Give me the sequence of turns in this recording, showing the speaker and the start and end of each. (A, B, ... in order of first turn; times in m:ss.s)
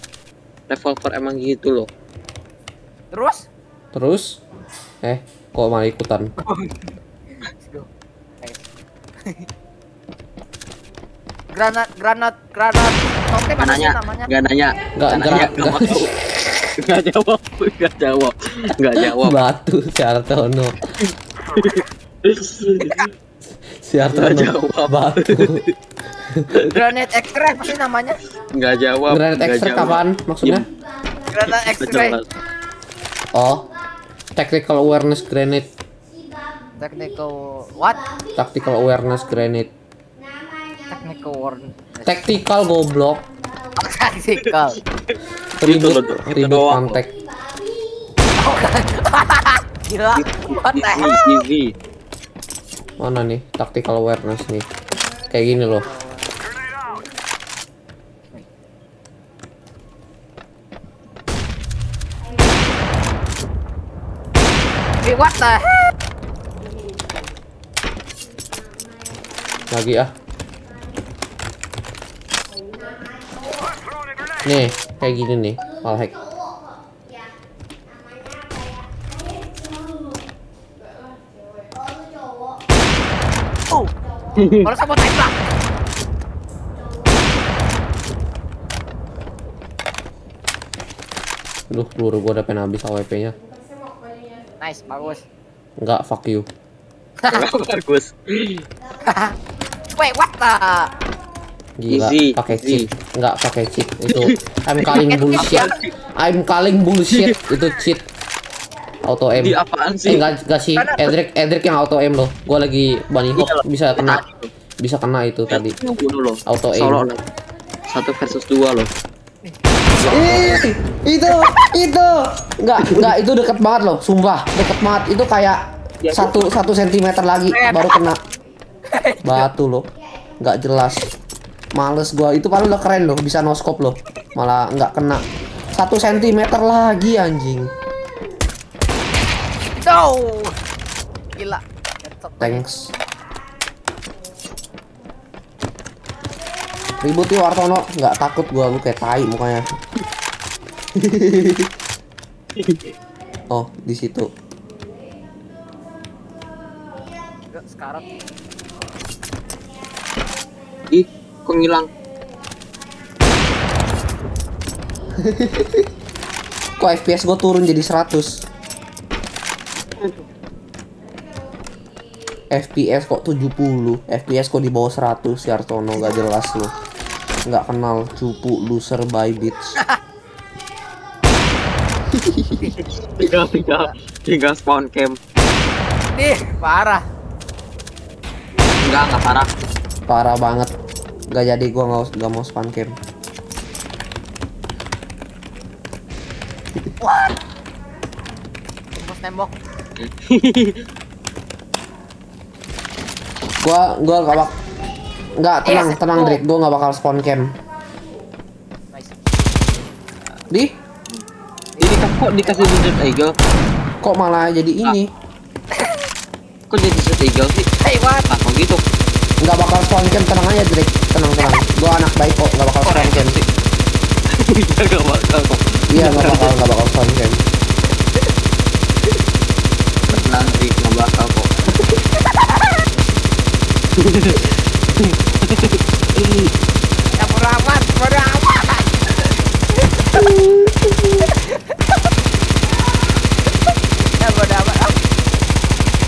0:00.7-0:01.9 A
0:03.1-0:03.5 B
0:03.9-0:04.4 C
0:05.0-0:06.3 C
0:06.4-0:06.9 B
0:07.5-0:07.9 B
0:11.5-0:14.3 B
0:13.6-0:19.4 A
0:15.0-0:16.1 C
0:19.0-0:20.8 C
0:21.0-0:23.1 A
0:23.7-0:25.6 C
0:24.1-0:25.7 A
0:26.3-0:26.5 C
0:26.5-0:26.8 A
0:26.6-0:28.2 B
0:28.5-0:30.7 A
0:29.1-0:30.7 C
0:31.3-0:32.2 B
0:31.5-0:32.3 A
0:33.3-0:33.7 C
0:34.4-0:35.7 C
0:36.8-0:38.1 B
0:38.3-0:39.7 C
0:40.9-0:42.3 B
0:42.0-0:43.3 C
0:43.8-0:44.8 B
0:44.5-0:47.0 A
0:45.6-0:47.1 C
0:48.4-0:51.4 B
0:50.2-0:51.7 A
0:53.0-0:54.7 C
0:55.3-0:55.9 C
0:55.9-0:56.3 B
1:05.0-1:05.9 B
1:09.7-1:10.1 C
1:14.4-1:16.2 C
1:24.4-1:24.7 A
1:24.6-1:25.4 B
1:31.7-1:33.4 C
1:34.6-1:35.2 B
1:35.8-1:36.5 C
1:37.3-1:38.6 A
1:39.0-1:39.4 B
1:39.9-1:40.9 B
1:41.8-1:48.0 C
1:41.9-1:42.9 A
1:44.1-1:44.9 A
1:44.9-1:45.8 B
1:45.4-1:45.9 A
1:47.1-1:47.4 A
1:49.0-1:54.2 C
1:49.4-1:50.3 A
1:50.8-1:51.1 B
1:53.4-1:54.5 A
1:54.8-1:55.8 C
1:55.5-1:57.2 A
1:56.5-1:57.0 C
1:57.9-1:58.9 A
2:00.0-2:00.7 A
2:00.1-2:05.6 C
2:06.0-2:06.5 A
2:06.1-2:08.2 C
2:07.5-2:08.0 B
2:08.9-2:09.4 B
2:09.2-2:09.9 C
2:10.4-2:11.0 C
2:11.8-2:15.2 C
2:15.7-2:17.7 C
2:19.8-2:20.6 B
2:21.4-2:22.7 B
2:22.4-2:22.9 C
2:27.0-2:29.6 C
2:31.0-2:31.7 C
2:32.6-2:32.9 A
2:33.5-2:34.3 C
2:37.5-2:38.1 B
2:40.9-2:41.9 A
2:45.2-2:45.9 C
2:46.8-2:48.4 C
2:52.5-2:56.8 C
2:57.5-2:59.8 C
3:02.1-3:02.6 C
3:03.0-3:05.2 A
3:06.2-3:07.0 B
3:08.8-3:09.5 A
3:10.1-3:10.7 C
3:11.3-3:13.0 C
3:17.0-3:17.4 B
3:19.0-3:19.6 B
3:20.0-3:20.8 A
3:23.6-3:24.6 C
3:25.4-3:27.6 C
3:25.6-3:26.4 B
3:30.5-3:30.8 C
3:31.8-3:32.7 B
3:31.8-3:33.4 A
3:34.0-3:35.1 C
3:35.7-3:36.1 B
3:36.7-3:37.7 A
3:37.8-3:38.3 B
3:38.3-3:38.8 A
3:39.4-3:43.4 C
3:42.8-3:43.4 A
3:44.3-3:46.6 A
3:45.9-3:47.4 C
3:50.1-3:51.7 A
3:52.2-3:52.8 B
3:54.0-3:56.5 A
3:57.2-4:00.3 B
4:00.2-4:01.3 C
4:01.2-4:02.0 B
4:03.7-4:05.0 B